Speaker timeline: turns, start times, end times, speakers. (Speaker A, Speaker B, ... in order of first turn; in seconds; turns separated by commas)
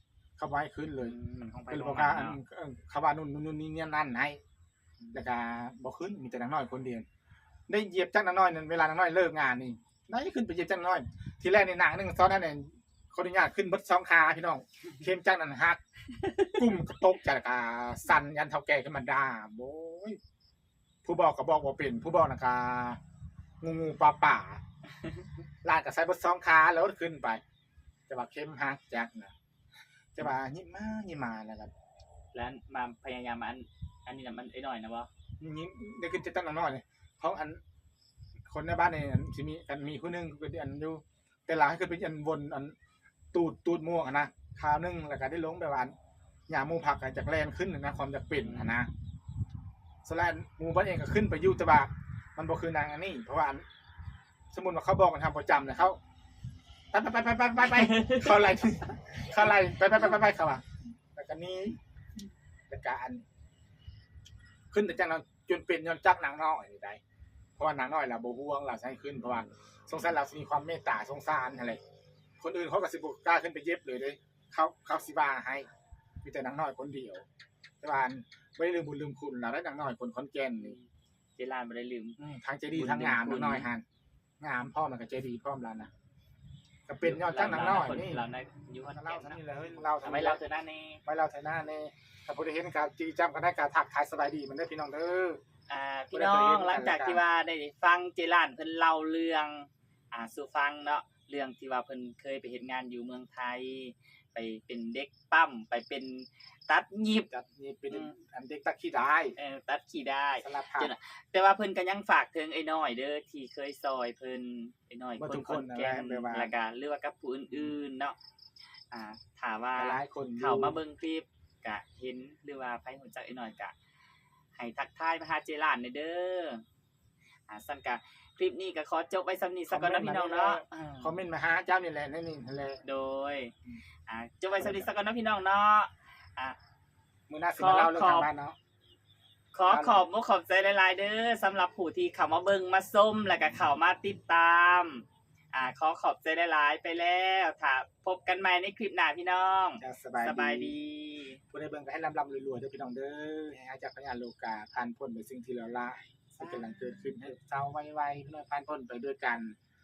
Speaker A: 0.4-1.2, Speaker B: 1.0-2.4, Speaker A: 1.7-4.4, Speaker B: 5.0-5.3, Speaker A: 5.1-7.1, Speaker A: 7.7-15.8, Speaker A: 16.5-20.2, Speaker A: 21.0-23.0, Speaker A: 23.6-24.6, Speaker A: 25.6-27.4, Speaker A: 28.1-29.3, Speaker A: 30.1-31.7, Speaker B: 32.3-35.1, Speaker A: 35.4-37.6, Speaker A: 38.5-42.8, Speaker A: 43.3-45.9, Speaker A: 46.5-48.9, Speaker B: 48.4-48.8, Speaker A: 50.0-53.6, Speaker A: 54.5-56.0, Speaker A: 56.9-60.6, Speaker B: 57.6-58.3, Speaker A: 61.1-61.8, Speaker A: 62.7-63.2, Speaker A: 64.7-67.0, Speaker A: 67.6-71.8, Speaker A: 72.4-75.7, Speaker A: 76.2-77.2, Speaker A: 77.8-80.8, Speaker B: 80.6-82.2, Speaker A: 82.2-83.8, Speaker B: 82.7-83.7, Speaker A: 84.4-85.9, Speaker A: 86.9-88.2, Speaker B: 87.0-91.0, Speaker A: 88.9-90.4, Speaker A: 91.1-95.4, Speaker B: 95.7-107.3, Speaker A: 96.1-97.2, Speaker A: 107.3-109.4, Speaker B: 109.4-118.2, Speaker A: 110.4-110.9, Speaker A: 115.2-116.5, Speaker B: 118.9-123.7, Speaker A: 119.8-120.8, Speaker B: 124.5-126.6, Speaker B: 127.5-131.1, Speaker A: 129.7-132.8, Speaker B: 132.8-133.5, Speaker B: 134.1-136.6, Speaker A: 134.6-134.9, Speaker A: 137.3-138.6, Speaker B: 137.6-138.3, Speaker B: 139.5-151.4, Speaker A: 139.7-140.0, Speaker A: 149.8-150.8, Speaker A: 151.5-159.6, Speaker B: 156.4-157.1